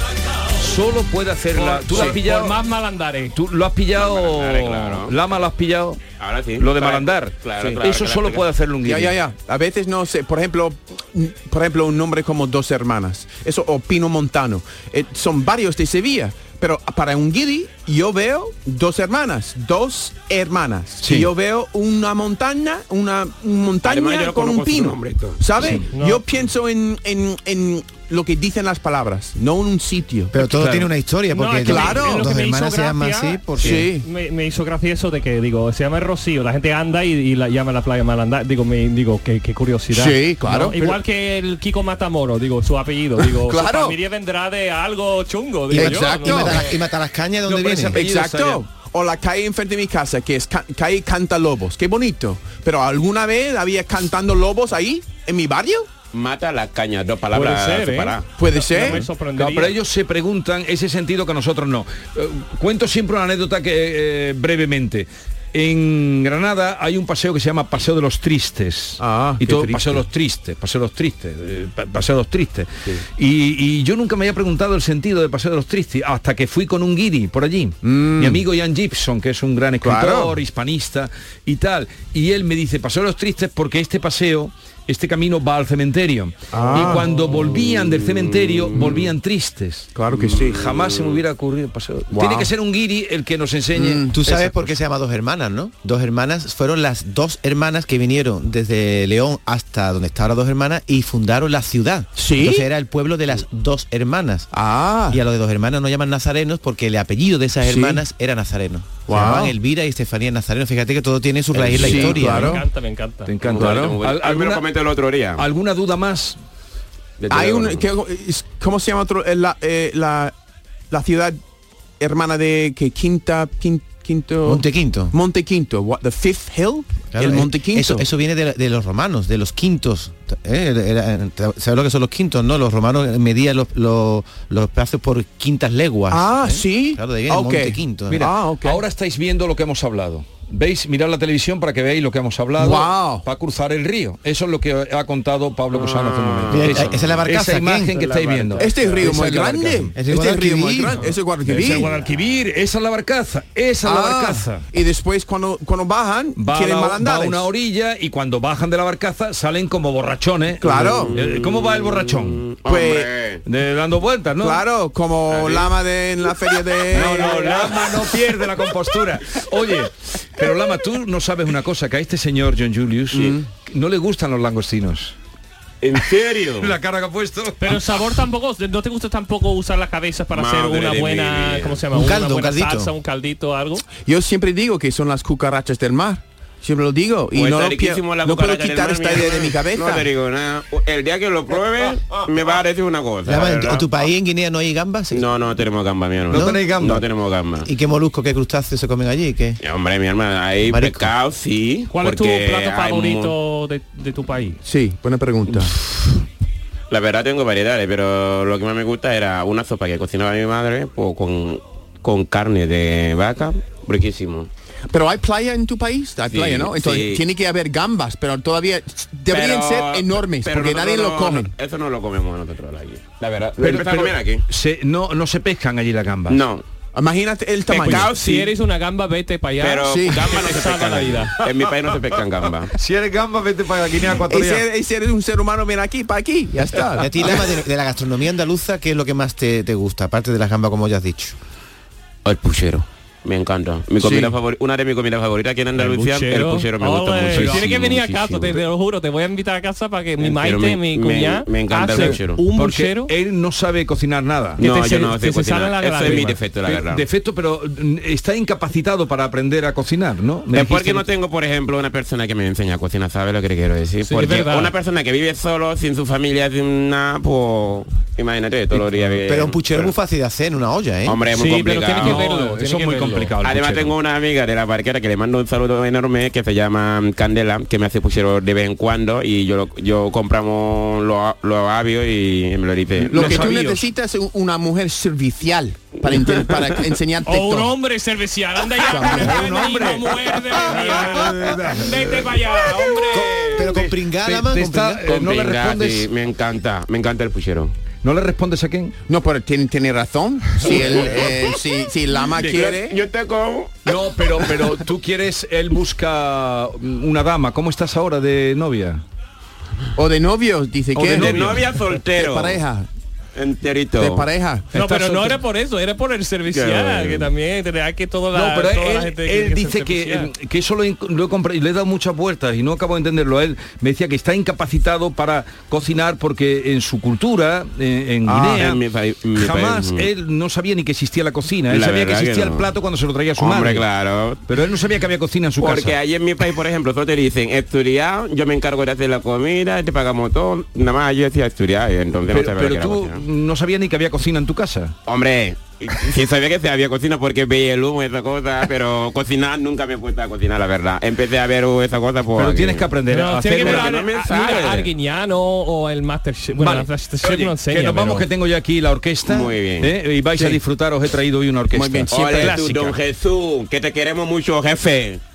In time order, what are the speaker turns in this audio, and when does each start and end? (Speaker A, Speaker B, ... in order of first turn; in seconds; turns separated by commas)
Speaker A: 0.6-2.6, Speaker B: 1.5-3.3, Speaker C: 1.9-2.2, Speaker A: 3.3-6.0, Speaker D: 4.0-5.1, Speaker D: 6.2-8.4, Speaker A: 6.6-9.2, Speaker C: 8.8-30.4, Speaker A: 21.0-21.3, Speaker D: 23.8-25.7, Speaker A: 25.6-25.9, Speaker B: 25.9-26.2, Speaker E: 30.3-33.8, Speaker A: 30.5-30.9, Speaker B: 31.3-46.7, Speaker C: 31.6-32.3, Speaker C: 33.6-34.0, Speaker C: 39.9-40.9, Speaker C: 43.3-44.0, Speaker C: 45.7-46.6, Speaker E: 45.7-48.0, Speaker A: 47.5-48.7, Speaker C: 47.6-55.9, Speaker D: 56.1-59.0, Speaker B: 57.3-59.7, Speaker C: 58.4-59.0, Speaker A: 59.4-94.8, Speaker C: 69.0-70.0, Speaker C: 77.8-78.4, Speaker C: 79.8-80.4, Speaker C: 86.5-87.2, Speaker D: 88.6-88.9, Speaker C: 88.7-89.1, Speaker C: 89.9-91.2, Speaker C: 92.1-92.5, Speaker C: 93.7-94.1, Speaker E: 94.1-104.5, Speaker C: 102.2-102.7, Speaker C: 104.5-105.2, Speaker E: 105.1-112.6, Speaker C: 107.6-108.0, Speaker C: 109.1-109.5, Speaker C: 111.7-112.6, Speaker B: 111.8-113.3, Speaker A: 113.2-114.6, Speaker D: 113.4-115.4, Speaker C: 113.5-114.0, Speaker A: 115.4-116.4, Speaker D: 117.2-117.9, Speaker C: 117.3-120.3, Speaker C: 120.9-121.4, Speaker C: 122.0-128.0, Speaker E: 124.4-125.1, Speaker E: 127.1-138.3, Speaker C: 136.1-138.8, Speaker A: 138.1-149.9, Speaker C: 142.5-143.2, Speaker D: 145.7-147.0, Speaker E: 146.5-148.5, Speaker B: 148.3-148.8, Speaker C: 148.5-152.0, Speaker E: 149.9-151.0, Speaker A: 151.0-154.7, Speaker C: 153.8-157.5, Speaker A: 156.3-162.6, Speaker C: 160.6-161.2, Speaker D: 161.1-163.4, Speaker C: 162.7-163.1, Speaker A: 163.4-164.6, Speaker C: 164.4-167.7, Speaker D: 165.3-165.7, Speaker A: 166.9-175.1, Speaker D: 166.9-168.1, Speaker C: 173.1-173.4, Speaker D: 175.8-176.7, Speaker A: 176.6-178.0, Speaker B: 177.6-183.9, Speaker D: 180.3-181.8, Speaker E: 181.9-182.9, Speaker C: 184.0-190.1, Speaker D: 187.3-194.1, Speaker E: 193.2-195.3, Speaker D: 195.1-197.7, Speaker E: 196.3-197.0, Speaker A: 196.3-197.0, Speaker E: 197.6-199.6, Speaker D: 199.6-203.3, Speaker E: 200.7-201.1, Speaker B: 201.9-204.6, Speaker C: 204.6-205.7, Speaker D: 206.9-214.5, Speaker C: 214.9-221.5, Speaker D: 216.3-217.2, Speaker D: 219.3-224.4, Speaker A: 223.6-226.4, Speaker D: 226.3-226.6, Speaker C: 226.9-228.2, Speaker D: 227.7-228.5, Speaker B: 227.7-231.4, Speaker D: 229.6-232.7, Speaker C: 229.9-230.2, Speaker A: 232.7-234.7, Speaker C: 234.0-237.5, Speaker E: 237.0-241.3, Speaker D: 242.2-248.6, Speaker C: 244.0-244.3, Speaker B: 245.8-253.1, Speaker A: 247.3-247.7, Speaker D: 250.2-252.4, Speaker A: 251.8-254.6, Speaker B: 254.6-256.4, Speaker D: 254.6-257.0, Speaker A: 256.6-261.1, Speaker D: 260.5-269.9, Speaker B: 264.1-264.7, Speaker E: 269.2-271.2, Speaker D: 271.0-272.3, Speaker B: 271.3-273.3, Speaker A: 271.9-273.9, Speaker D: 273.4-283.5, Speaker C: 283.1-287.7, Speaker B: 283.1-283.8, Speaker D: 286.0-286.8, Speaker B: 287.2-293.7, Speaker C: 288.9-289.5, Speaker A: 288.9-292.2, Speaker A: 293.1-296.1, Speaker E: 293.5-295.0, Speaker D: 295.1-297.7, Speaker A: 298.0-298.9, Speaker C: 299.1-303.0, Speaker D: 300.6-301.6, Speaker D: 302.4-304.8, Speaker A: 303.8-309.0, Speaker C: 309.9-311.4, Speaker A: 310.9-311.7, Speaker D: 311.0-312.6, Speaker C: 312.1-312.9, Speaker D: 313.4-314.3, Speaker C: 314.0-315.2, Speaker B: 314.7-320.3, Speaker D: 316.5-317.3, Speaker A: 318.3-328.8, Speaker D: 328.2-330.1, Speaker A: 329.3-333.9, Speaker D: 331.7-332.7, Speaker D: 333.4-334.4, Speaker A: 334.5-335.9, Speaker D: 335.6-343.2, Speaker A: 342.3-344.9, Speaker D: 345.1-352.9, Speaker A: 352.3-354.0, Speaker B: 353.1-358.3, Speaker D: 353.5-354.9, Speaker A: 356.6-362.9, Speaker D: 359.2-359.9, Speaker C: 360.3-360.6, Speaker C: 361.7-362.6, Speaker D: 362.1-365.2, Speaker B: 362.3-362.9